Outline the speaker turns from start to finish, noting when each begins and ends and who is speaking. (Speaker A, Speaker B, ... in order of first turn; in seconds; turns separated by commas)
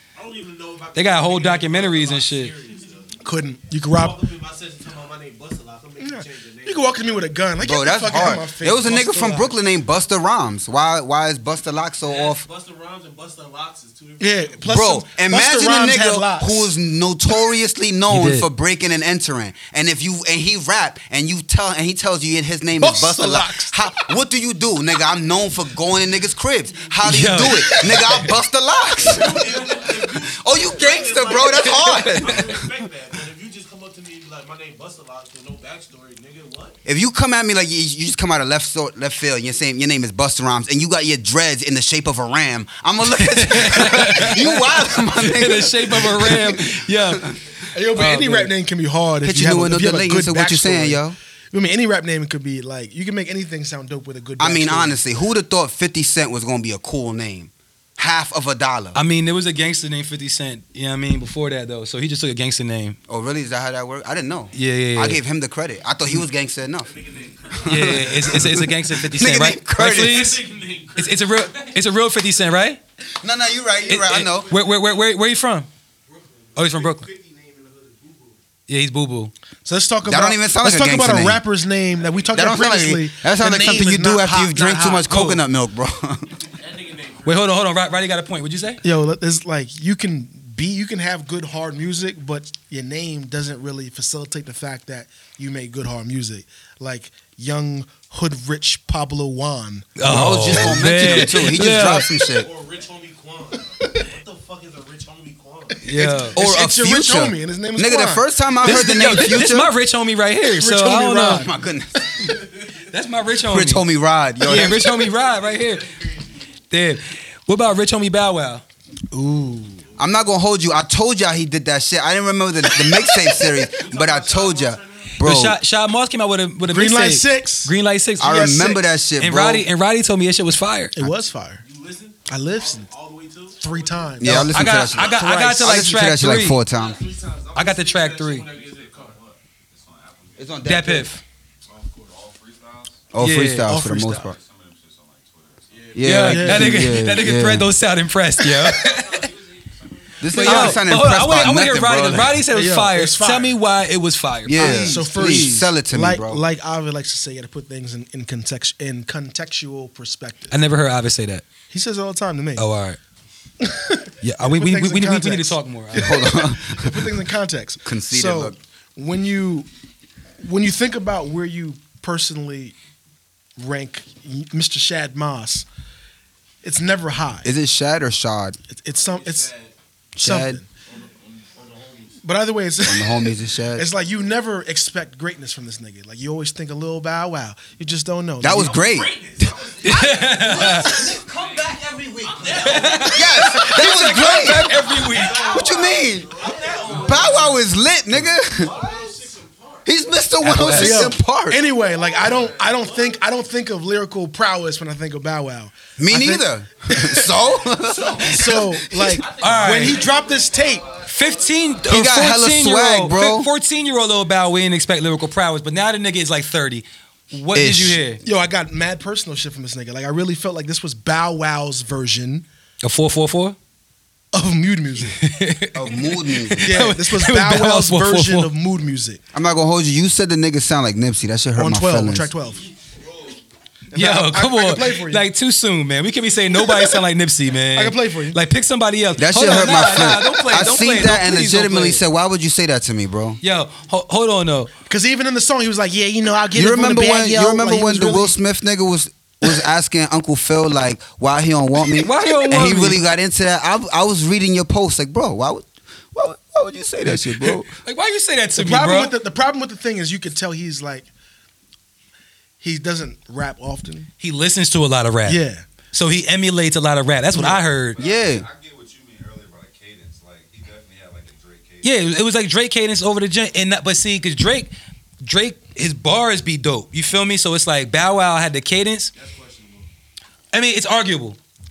Speaker A: 0.2-3.2, Speaker B: 0.9-2.5, Speaker C: 3.2-4.2, Speaker A: 3.8-7.2, Speaker C: 6.0-9.5, Speaker D: 7.6-12.5, Speaker A: 12.0-14.7, Speaker C: 14.2-16.7, Speaker D: 14.7-32.6, Speaker B: 18.1-18.5, Speaker C: 22.8-23.8, Speaker A: 26.8-27.8, Speaker B: 27.0-28.3, Speaker A: 29.0-36.8, Speaker D: 36.9-47.4, Speaker B: 43.2-47.3, Speaker C: 47.7-55.0, Speaker B: 48.0-48.5, Speaker D: 49.2-51.2, Speaker D: 54.4-59.0, Speaker B: 59.0-63.0, Speaker D: 63.1-67.0, Speaker B: 64.5-65.2, Speaker A: 66.8-68.6, Speaker D: 67.5-70.4, Speaker B: 67.7-70.4, Speaker A: 69.9-71.7, Speaker B: 71.0-72.8, Speaker D: 73.2-74.5, Speaker B: 73.9-75.7, Speaker A: 74.5-74.9, Speaker A: 76.1-78.4, Speaker B: 76.6-77.1, Speaker B: 78.7-79.3, Speaker C: 79.7-85.1, Speaker D: 80.0-81.4, Speaker A: 82.0-82.3, Speaker D: 82.3-86.3, Speaker B: 85.1-85.4, Speaker A: 86.4-87.5, Speaker B: 87.2-88.8, Speaker C: 88.8-99.9, Speaker B: 100.0-102.1, Speaker D: 100.1-102.5, Speaker A: 102.1-105.8, Speaker B: 105.8-106.4, Speaker C: 105.9-109.3, Speaker D: 106.4-109.7, Speaker B: 108.6-111.5, Speaker C: 110.5-111.5, Speaker D: 111.3-112.3, Speaker C: 112.1-112.4, Speaker B: 112.9-113.8, Speaker D: 113.5-114.9, Speaker B: 114.4-116.0, Speaker A: 114.7-116.5, Speaker B: 116.7-118.6, Speaker C: 119.1-119.8, Speaker D: 120.0-125.6, Speaker A: 123.7-125.1, Speaker B: 125.2-128.6, Speaker C: 126.7-128.8, Speaker D: 128.2-129.7, Speaker B: 129.2-131.0, Speaker C: 131.0-131.6, Speaker A: 131.6-134.3, Speaker C: 132.3-132.9, Speaker C: 133.6-135.6, Speaker D: 134.2-137.0, Speaker B: 134.3-136.6, Speaker A: 136.7-139.2, Speaker B: 137.6-138.5, Speaker E: 138.4-140.7, Speaker D: 140.4-141.1, Speaker B: 140.7-141.2, Speaker A: 141.7-142.1, Speaker E: 141.7-143.1, Speaker D: 143.1-144.3, Speaker B: 143.2-143.7, Speaker C: 143.7-144.3, Speaker E: 144.1-146.0, Speaker A: 145.7-146.3, Speaker D: 145.9-147.7, Speaker B: 146.0-149.3, Speaker C: 146.2-147.0, Speaker E: 148.8-150.4, Speaker D: 150.2-152.4, Speaker B: 150.3-155.4, Speaker C: 150.5-150.8, Speaker C: 152.5-153.6, Speaker D: 154.5-156.4, Speaker C: 154.5-160.6, Speaker B: 160.5-161.5, Speaker C: 161.7-162.7, Speaker B: 162.6-163.0, Speaker C: 163.6-169.7, Speaker B: 164.2-166.2, Speaker D: 165.9-167.1, Speaker D: 167.8-168.6, Speaker C: 170.4-172.8, Speaker C: 173.6-175.7, Speaker C: 176.6-177.5, Speaker D: 177.4-178.6, Speaker C: 178.7-179.5, Speaker A: 178.9-179.7, Speaker D: 180.2-180.6, Speaker C: 180.2-180.7, Speaker A: 180.9-182.2, Speaker C: 182.2-188.9, Speaker D: 182.8-183.9, Speaker D: 188.4-189.5, Speaker A: 188.6-191.4, Speaker E: 189.6-193.2, Speaker B: 189.8-190.9, Speaker A: 192.2-193.8, Speaker B: 192.6-195.6, Speaker D: 193.0-194.8, Speaker A: 194.8-197.6, Speaker D: 195.4-196.3, Speaker E: 195.6-197.6, Speaker D: 196.9-198.7, Speaker A: 198.5-199.9, Speaker E: 198.6-199.1, Speaker D: 199.9-201.6, Speaker B: 200.4-201.1, Speaker C: 200.6-207.3, Speaker A: 201.9-203.2, Speaker E: 202.1-202.7, Speaker D: 206.0-209.2, Speaker C: 208.1-210.9, Speaker A: 209.2-211.3, Speaker E: 209.2-211.9, Speaker B: 209.4-210.0, Speaker B: 211.1-218.2, Speaker D: 211.9-213.5, Speaker D: 217.5-218.0, Speaker C: 218.2-222.5, Speaker B: 222.8-223.6, Speaker C: 224.3-225.2, Speaker B: 225.2-228.5, Speaker D: 225.7-226.9, Speaker C: 226.6-229.2, Speaker D: 229.3-232.3, Speaker C: 231.6-232.7, Speaker C: 233.9-235.3, Speaker B: 233.9-242.0, Speaker C: 236.6-237.0, Speaker C: 237.7-238.4, Speaker D: 239.2-243.4, Speaker B: 243.4-244.7, Speaker C: 244.9-248.3, Speaker D: 246.5-257.7, Speaker B: 252.0-253.0, Speaker C: 257.1-257.6, Speaker B: 257.8-259.1, Speaker C: 258.6-261.1, Speaker C: 262.6-264.1, Speaker B: 264.2-265.4, Speaker C: 265.3-265.6, Speaker B: 265.9-268.0, Speaker E: 267.9-272.1, Speaker D: 268.0-268.5, Speaker B: 271.8-274.7, Speaker B: 275.2-279.1, Speaker A: 279.1-279.9, Speaker B: 280.5-281.4